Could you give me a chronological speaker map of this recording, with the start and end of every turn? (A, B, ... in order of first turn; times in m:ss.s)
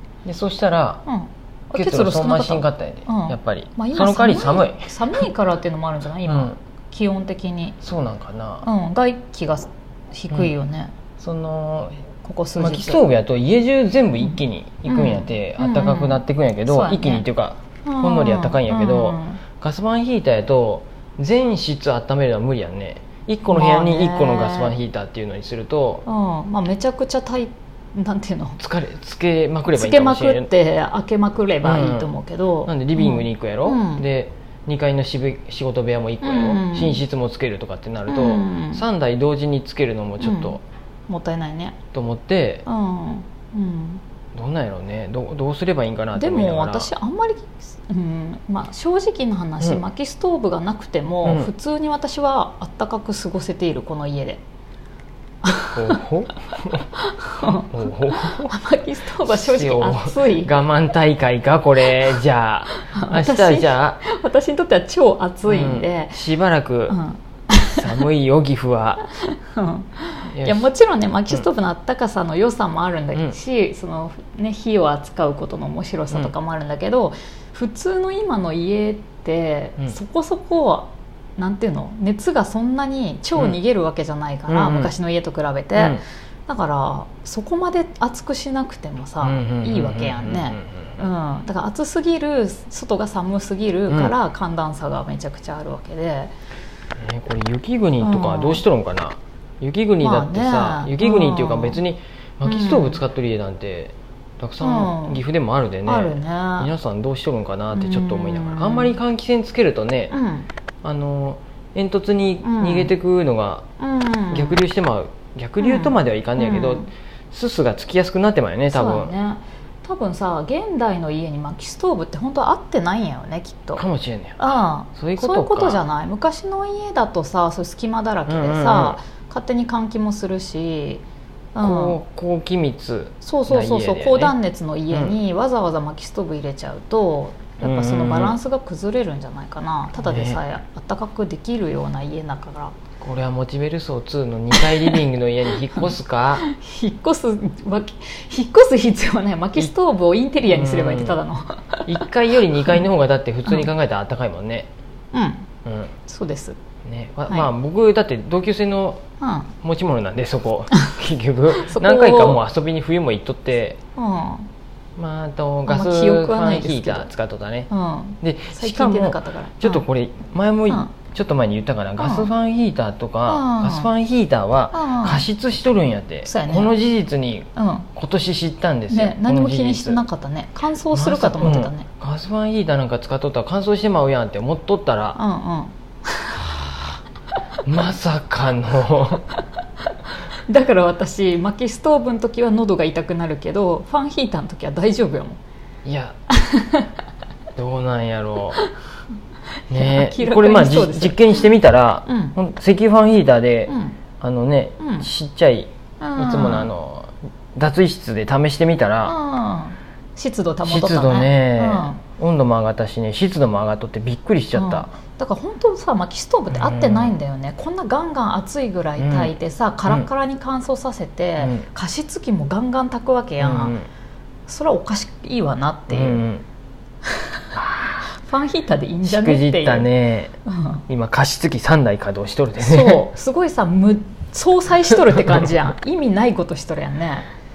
0:00.2-0:01.0 A
0:01.0-0:07.8 B
0:01.7-0:05.2 A
0:06.2-0:06.6 A
0:07.8-0:08.7 A
0:08.6-0:10.9 B
0:11.2-0:12.0 A
0:12.2-0:13.0 B
0:12.6-0:26.0 A
0:14.2-0:17.2 B
0:17.8-0:19.4 B
0:23.4-0:24.8 B
0:26.0-0:28.6 B
0:28.6-0:30.5 A
0:29.7-0:34.0 B
0:31.6-0:32.1 A
0:32.6-0:40.6 A
0:36.2-0:37.0 B
0:38.1-0:38.8 B
0:40.2-0:41.8 B
0:41.9-0:42.6 A
0:42.6-0:44.0 B
0:44.3-0:46.9 A
0:46.2-0:54.4 B
0:51.2-0:51.5 A
0:55.4-0:56.0 B
0:55.7-0:56.8 A
0:57.0-1:00.5 B
0:57.4-0:58.5 A
0:59.2-1:04.0 A
1:02.8-1:06.2 B
1:05.4-1:07.0 A
1:06.9-1:08.0 B
1:07.7-1:09.0 A
1:09.1-1:36.3 B
1:10.3-1:10.7 A
1:24.5-1:24.9 A
1:25.8-1:26.0 A
1:29.2-1:31.0 A
1:33.9-1:34.1 A
1:37.0-1:50.1 A
1:38.0-1:38.6 B
1:40.0-1:41.8 B
1:42.4-1:43.0 B
1:44.6-1:45.2 B
1:45.8-1:46.7 B
1:47.7-1:49.0 B
1:50.1-1:50.5 B
1:50.8-1:53.6 A
1:52.4-1:52.9 B
1:53.8-1:54.6 B
1:54.3-1:59.1 A
1:55.6-1:56.9 B
1:58.7-2:03.8 B
2:03.8-2:05.8 A
2:04.4-2:11.0 B
2:08.3-2:09.0 A
2:11.5-2:12.0 B
2:11.6-2:14.3 A
2:13.2-2:22.8 B
2:14.9-2:15.2 A
2:17.6-2:18.4 A
2:20.0-2:20.4 A
2:23.0-2:26.4 A
2:24.5-2:25.0 B
2:26.4-2:32.0 B
2:30.5-2:31.2 A
2:31.9-2:34.7 A
2:35.1-2:35.5 B
2:35.6-2:35.9 A
2:36.0-2:36.6 B
2:36.8-2:39.0 A
2:39.2-2:39.5 B
2:39.6-2:43.8 A
2:41.6-2:42.4 B
2:44.0-2:44.5 B
2:45.0-2:47.7 A
2:45.7-2:47.1 B
2:47.7-2:49.8 B
2:48.2-3:00.0 A
2:52.0-2:52.3 B
2:53.3-2:53.9 B
2:54.7-2:55.2 B
2:56.2-2:56.7 B
2:57.6-2:57.9 B
2:58.9-3:01.9 B
3:00.9-3:05.2 A
3:05.2-3:06.5 B
3:07.6-3:09.2 A
3:10.5-3:15.4 B
3:15.8-3:16.2 A
3:16.3-3:17.0 B
3:17.6-3:18.6 A
3:19.7-3:21.5 B
3:19.7-3:29.2 A
3:22.0-3:22.4 B
3:23.7-3:24.0 B
3:24.8-3:25.1 B
3:26.0-3:26.7 B
3:29.0-3:32.0 B
3:30.6-3:34.9 A
3:34.5-3:43.7 B
3:36.5-3:37.1 A
3:39.0-3:39.3 A
3:41.4-3:41.6 A
3:43.4-3:43.9 A
3:44.5-3:46.2 B
3:45.9-3:46.4 A
3:47.1-3:47.4 B
3:47.5-3:48.1 A
3:48.0-3:49.9 B
3:49.0-3:50.3 A
3:50.4-3:50.8 B
3:50.9-3:53.0 A
3:52.6-3:57.3 B
3:54.9-3:55.5 A